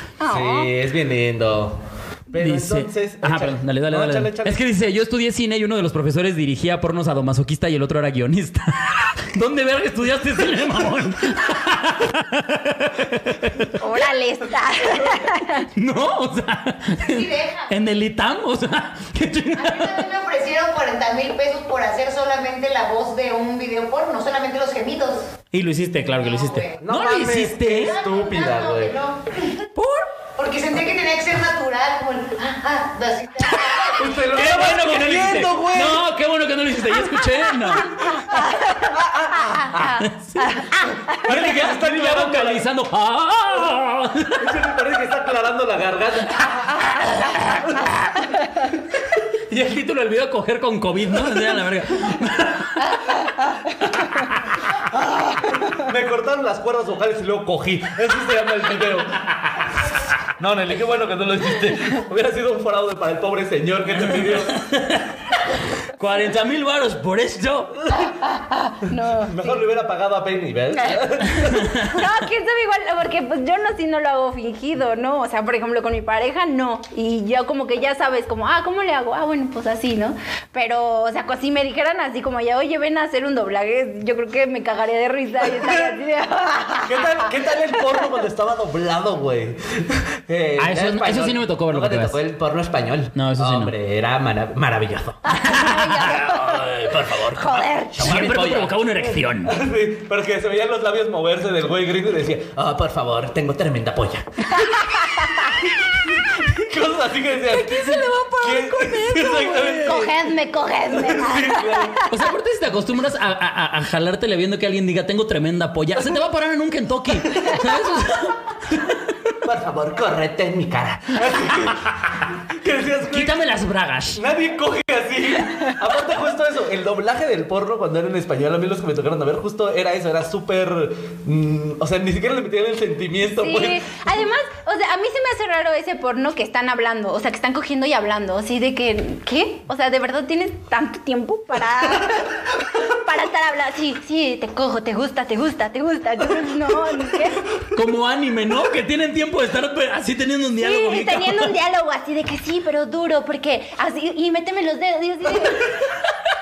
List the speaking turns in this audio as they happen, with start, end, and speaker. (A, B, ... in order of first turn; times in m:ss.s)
0:00.2-0:00.7 A
0:00.3-0:04.7 B
0:02.3-0:13.8 C
0:13.8-0:15.7 A
0:15.1-0:20.0 C
0:17.0-0:17.7 D
0:19.5-0:25.3 D
0:25.5-0:28.0 C
0:26.2-0:26.8 D
0:26.8-0:29.0 B
0:27.7-0:29.6 D
0:29.8-0:30.0 C
0:30.4-0:34.1 D
0:33.5-0:38.1 C
0:34.0-0:36.0 B
0:38.3-0:38.9 A
0:38.8-0:40.0 B
0:39.8-0:44.6 C
0:40.4-0:41.2 A
0:41.1-0:42.7 B
0:44.4-0:46.7 B
0:47.2-0:47.9 C
0:49.5-0:53.0 C
0:54.9-0:59.7 B
1:00.4-1:04.7 B
1:04.5-1:05.2 C
1:06.0-1:07.8 C
1:08.0-1:09.6 A
1:09.0-1:11.9 B
1:10.7-1:11.0 A
1:11.6-1:11.9 C
1:11.8-1:27.3 A
1:25.6-1:25.9 B
1:26.9-1:35.4 B
1:30.6-1:32.2 C
1:33.2-1:33.7 C
1:35.3-1:36.7 A
1:35.3-1:36.3 C
1:36.0-1:38.8 B
1:37.3-1:38.3 A
1:38.0-1:39.6 C
1:39.4-1:44.8 B
1:44.5-1:45.6 A
1:45.4-1:50.1 B
1:47.4-1:50.0 C
1:49.8-1:52.1 A
1:50.9-1:52.1 B
1:52.1-1:59.3 C
1:59.4-2:03.5 B
2:03.0-2:04.2 C
2:04.1-2:14.0 B
2:13.2-2:27.4 A
2:27.7-2:31.5 C
2:30.6-2:35.8 A